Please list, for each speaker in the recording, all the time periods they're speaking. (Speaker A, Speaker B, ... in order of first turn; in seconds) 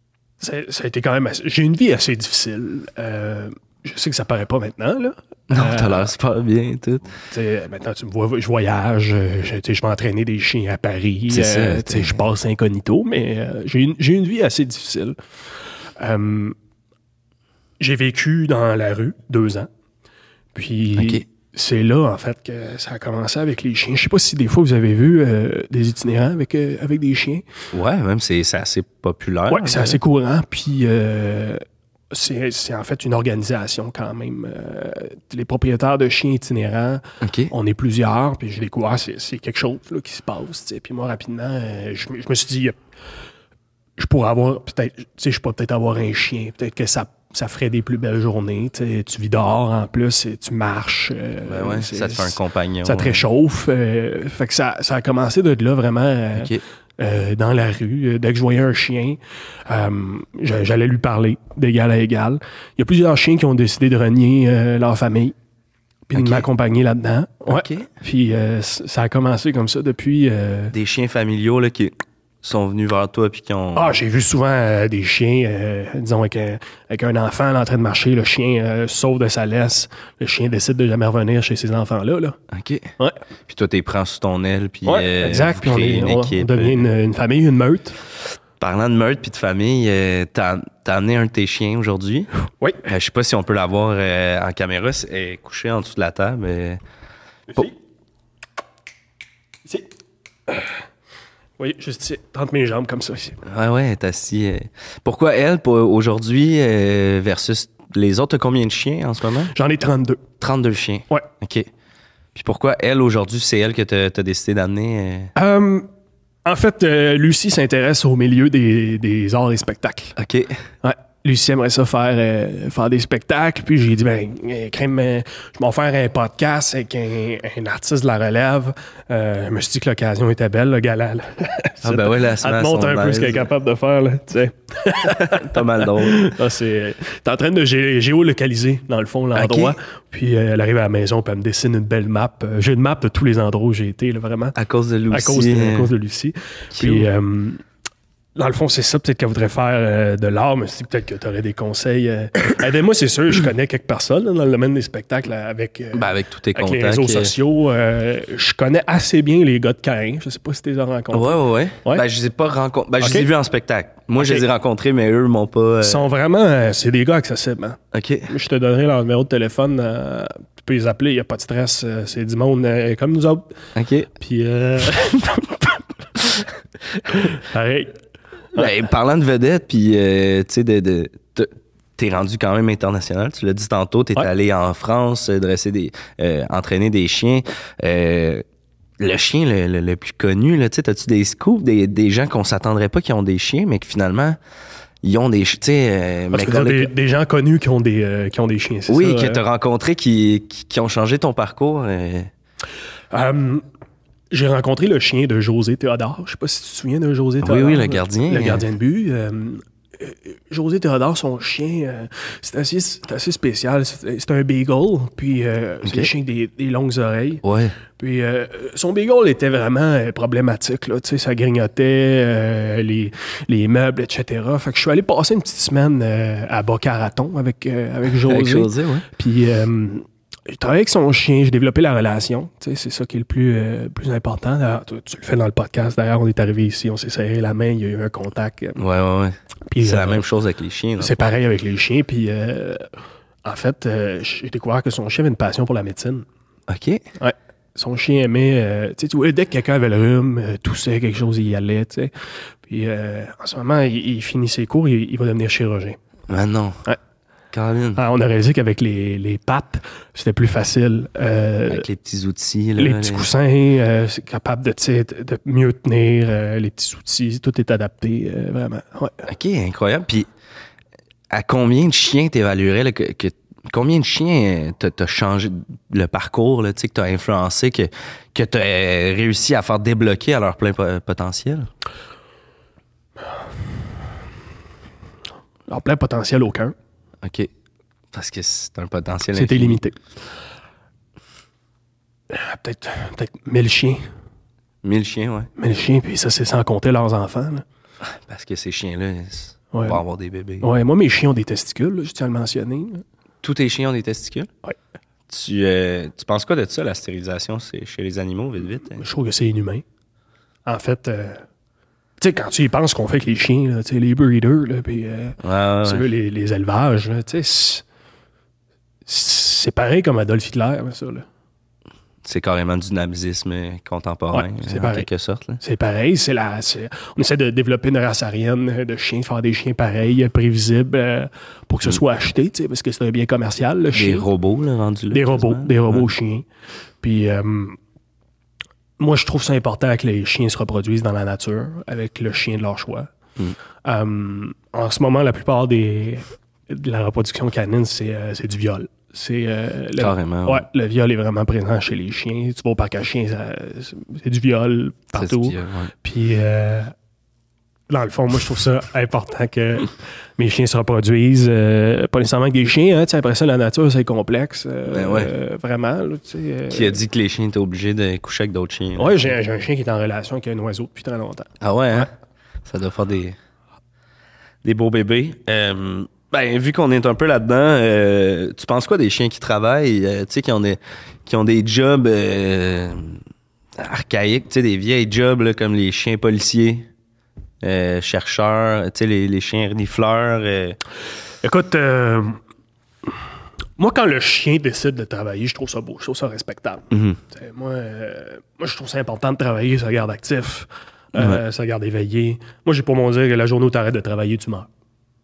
Speaker A: 0.4-6.1, 7.3-15.2, 15.9-16.6, 17.8-19.7, 20.5-27.4, 29.5-42.8, 44.0-65.3, 66.1-70.7, 73.7-82.4, 84.8-87.9, 99.6-99.9, 101.6-103.4, 109.5-110.2, 115.3-115.9, 116.4-120.2, 120.8-144.6, 145.1-147.6, 148.3-162.0, 163.0-163.3, 164.2-164.4, 165.8-173.5, 174.1-177.9, 196.3-199.4, 203.1-203.6, 204.3-238.8, 239.7-240.2, 241.0-242.9, 243.4-246.2, 247.2-252.1, 252.6-256.0, 258.0-261.8, 262.8-269.3, 285.7-286.7, 289.3-290.0, 292.3-294.0, 295.6-297.6, 299.7-300.0, 300.6-303.0, 309.0-309.8, 310.6-311.4, 312.2-317.8, 319.1-321.2, 324.3-325.1, 325.6-334.3, 335.1-336.5, 337.0-337.8, 339.0-343.1, 343.8-356.9, 357.9-367.0, 369.0-372.1, 391.4-392.4, 393.8-404.7
Speaker B: 5.5-7.2, 11.3-12.2, 20.9-21.2, 27.7-30.0, 37.2-37.5, 51.4-53.2, 56.3-56.6, 66.1-66.5, 67.5-67.9, 70.7-74.0, 82.5-82.9, 83.5-86.9, 88.6-92.3, 92.8-96.8, 103.4-109.5, 110.4-111.7, 112.3-115.3, 120.2-120.6, 131.8-133.5, 135.2-136.3, 139.3-139.8, 144.6-145.9, 146.7-147.1, 155.9-157.3, 161.1-166.0, 167.9-168.3, 173.7-174.1, 178.5-188.4, 189.0-194.4, 195.0-196.9, 198.9-202.3, 207.4-208.6, 215.8-216.1, 217.4-217.8, 228.2-229.1, 238.8-241.2, 246.7-247.0, 256.3-256.8, 257.5-258.0, 261.7-263.3, 269.2-270.3, 271.3-281.7, 287.2-287.5, 288.1-289.8, 294.8-295.5, 298.0-300.7, 303.4-304.5, 305.3-309.0, 315.4-316.1, 322.2-325.6, 333.9-336.1, 350.0-350.6, 355.1-355.9, 364.9-365.3, 366.7-369.3, 371.6-372.1, 372.6-373.4, 374.6-383.2, 383.8-386.9, 387.6-390.8, 396.9-397.2